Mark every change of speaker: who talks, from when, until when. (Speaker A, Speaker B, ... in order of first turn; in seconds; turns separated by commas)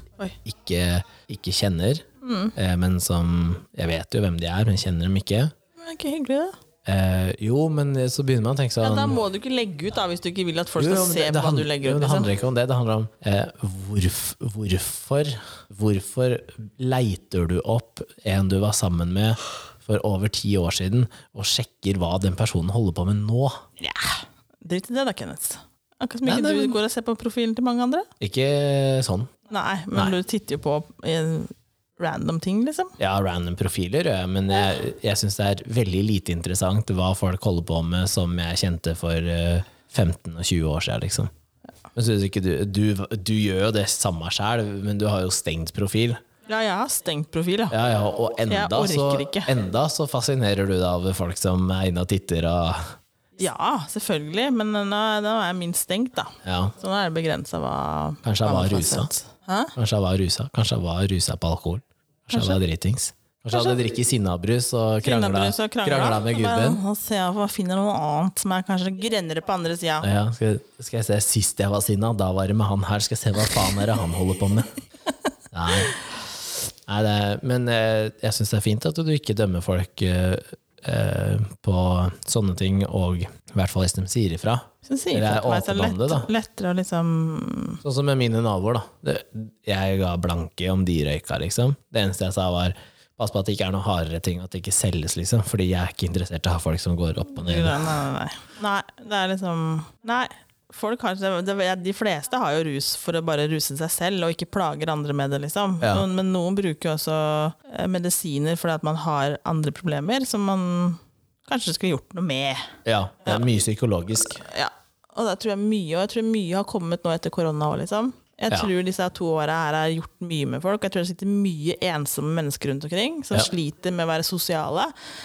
Speaker A: 0.4-5.5, Speaker B: 2.2-2.5, Speaker B: 5.8-6.6, Speaker A: 6.8-9.2, Speaker B: 8.8-12.3, Speaker A: 10.8-23.7, Speaker B: 23.8-28.1, Speaker A: 26.3-26.8, Speaker A: 28.2-29.3, Speaker B: 29.5-33.0, Speaker A: 33.0-41.3, Speaker A: 42.0-46.2, Speaker B: 46.5-47.8, Speaker A: 47.7-53.0, Speaker B: 48.5-49.5, Speaker B: 53.4-59.7, Speaker A: 56.5-56.7, Speaker A: 58.2-59.1, Speaker A: 59.8-66.8, Speaker B: 62.3-62.6, Speaker B: 63.5-63.8, Speaker B: 65.0-70.1, Speaker A: 70.0-74.7, Speaker A: 75.5-75.9, Speaker A: 76.9-86.3, Speaker B: 84.9-87.8, Speaker A: 87.8-97.9, Speaker B: 97.4-112.7, Speaker A: 112.9-114.4, Speaker B: 114.2-124.9